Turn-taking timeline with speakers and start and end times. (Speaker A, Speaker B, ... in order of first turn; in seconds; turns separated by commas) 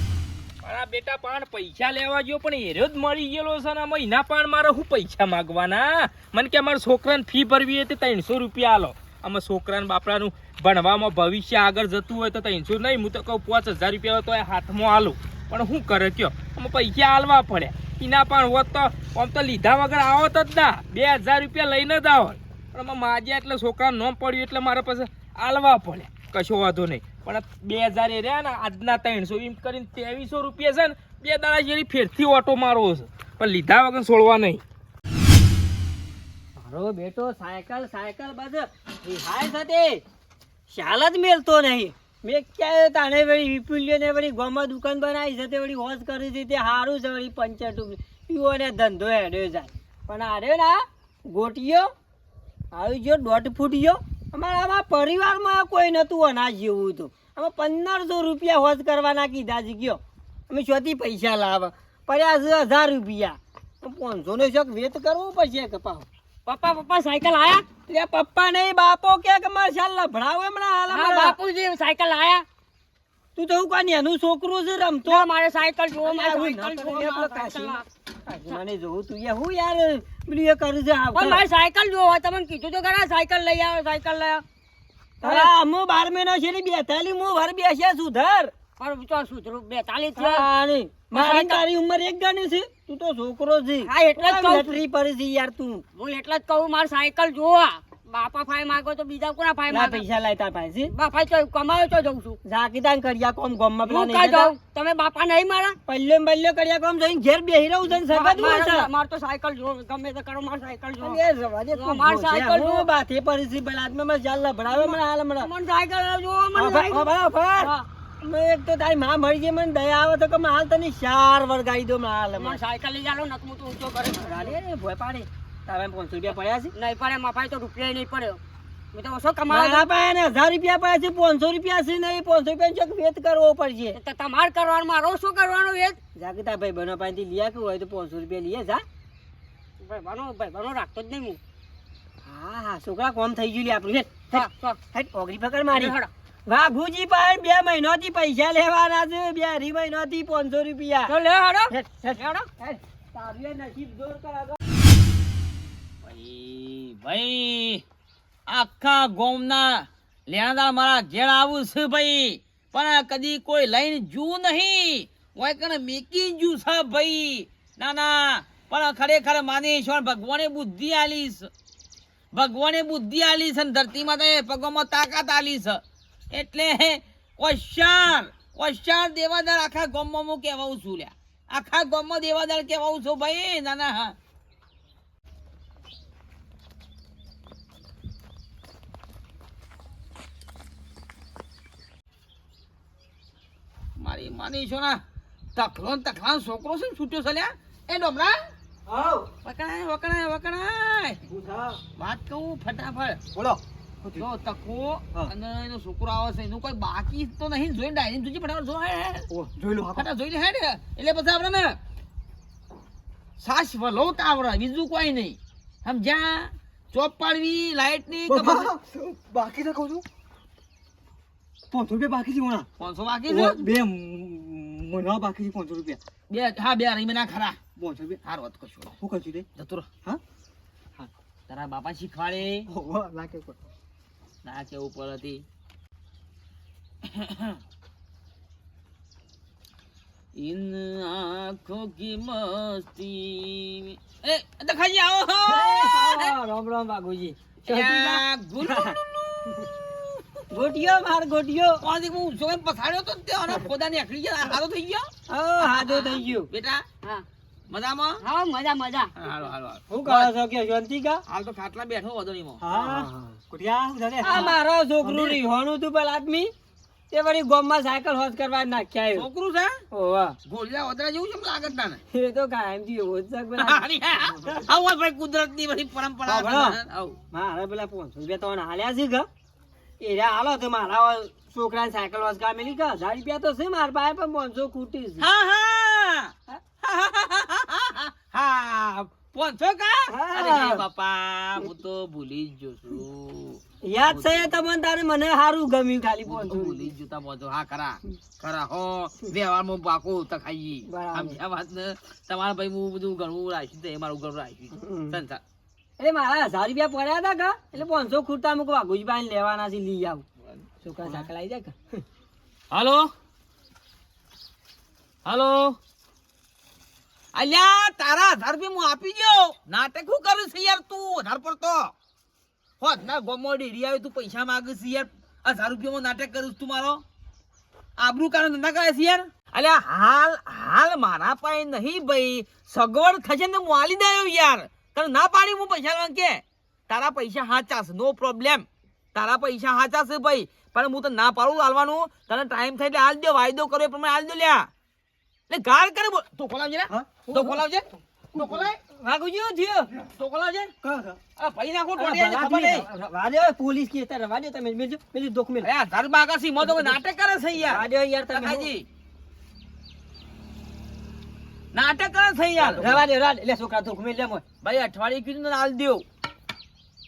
Speaker A: 0.6-34.6, Speaker B: 36.6-40.0, Speaker B: 40.7-51.9, Speaker B: 52.7-66.1, Speaker C: 66.5-67.7, Speaker B: 67.9-71.4, Speaker C: 70.9-72.5, Speaker B: 73.3-75.3, Speaker C: 75.0-77.9, Speaker B: 76.0-81.4, Speaker C: 81.1-84.4, Speaker C: 85.2-85.5, Speaker B: 85.2-88.5, Speaker C: 88.8-90.5, Speaker B: 90.2-95.8, Speaker C: 91.1-91.7, Speaker C: 93.8-94.8, Speaker C: 96.0-100.0, Speaker B: 99.7-100.9, Speaker C: 100.9-102.4, Speaker B: 102.5-104.5, Speaker C: 103.8-105.8, Speaker B: 105.9-108.9, Speaker C: 107.9-112.9, Speaker B: 111.0-115.5, Speaker C: 114.7-117.9, Speaker B: 116.5-122.6, Speaker C: 122.4-124.6, Speaker B: 124.2-126.7, Speaker C: 126.3-128.4, Speaker C: 128.9-129.9, Speaker B: 129.5-134.0, Speaker C: 133.9-136.0, Speaker B: 136.2-138.8, Speaker C: 139.8-141.4, Speaker B: 142.2-146.0, Speaker C: 144.3-144.8, Speaker C: 145.7-146.1, Speaker B: 146.5-151.2, Speaker C: 151.1-152.4, Speaker B: 151.7-154.6, Speaker D: 156.0-157.8, Speaker D: 158.5-171.5, Speaker D: 172.3-175.8, Speaker D: 176.3-184.2, Speaker D: 194.0-195.0, Speaker D: 195.6-198.4, Speaker E: 198.9-199.3, Speaker D: 199.4-201.2, Speaker E: 201.3-201.8, Speaker D: 202.0-203.2, Speaker E: 203.3-204.3, Speaker D: 204.2-209.3, Speaker E: 209.3-210.1, Speaker D: 209.9-211.8, Speaker D: 213.4-218.7, Speaker E: 218.3-220.1, Speaker E: 221.7-222.7, Speaker D: 222.8-223.7, Speaker E: 223.3-226.0, Speaker D: 226.3-227.6, Speaker E: 227.8-228.2, Speaker D: 228.2-229.0, Speaker E: 229.0-229.5, Speaker D: 229.6-229.9, Speaker D: 231.5-232.7, Speaker E: 232.7-233.6, Speaker D: 234.4-235.4, Speaker D: 237.1-237.6, Speaker D: 240.4-246.3, Speaker B: 245.5-248.2, Speaker D: 247.7-250.1, Speaker B: 250.5-251.8, Speaker D: 251.8-255.1, Speaker B: 255.3-256.5, Speaker D: 255.6-256.8, Speaker D: 257.7-258.2, Speaker C: 258.2-259.1, Speaker D: 259.2-260.3, Speaker B: 259.9-261.2, Speaker D: 261.3-262.6, Speaker E: 262.6-264.6, Speaker B: 262.8-263.0, Speaker B: 264.2-266.5, Speaker E: 265.1-265.4, Speaker B: 267.1-269.2, Speaker D: 269.1-269.8, Speaker B: 269.9-270.4, Speaker D: 270.4-272.0, Speaker B: 272.1-273.8, Speaker D: 273.6-277.2, Speaker B: 276.3-276.8, Speaker B: 277.3-279.3, Speaker B: 280.0-285.2, Speaker D: 285.2-294.6, Speaker B: 290.1-290.8, Speaker B: 293.9-296.9, Speaker D: 296.3-305.4, Speaker B: 300.9-301.4, Speaker B: 304.7-305.2, Speaker B: 306.0-310.2, Speaker B: 310.8-312.0, Speaker D: 312.7-313.1, Speaker D: 315.2-315.8, Speaker D: 317.4-321.9, Speaker D: 322.8-327.0, Speaker D: 328.0-344.7, Speaker D: 345.5-348.8, Speaker E: 346.9-347.6, Speaker E: 348.3-348.7, Speaker B: 348.9-349.9, Speaker D: 350.1-350.7, Speaker E: 350.8-351.2, Speaker D: 351.4-352.9, Speaker B: 352.0-355.7, Speaker D: 355.6-358.9, Speaker B: 356.7-356.9, Speaker B: 357.6-358.7, Speaker D: 361.7-362.8, Speaker E: 362.6-363.1, Speaker B: 362.7-364.4, Speaker D: 364.6-366.0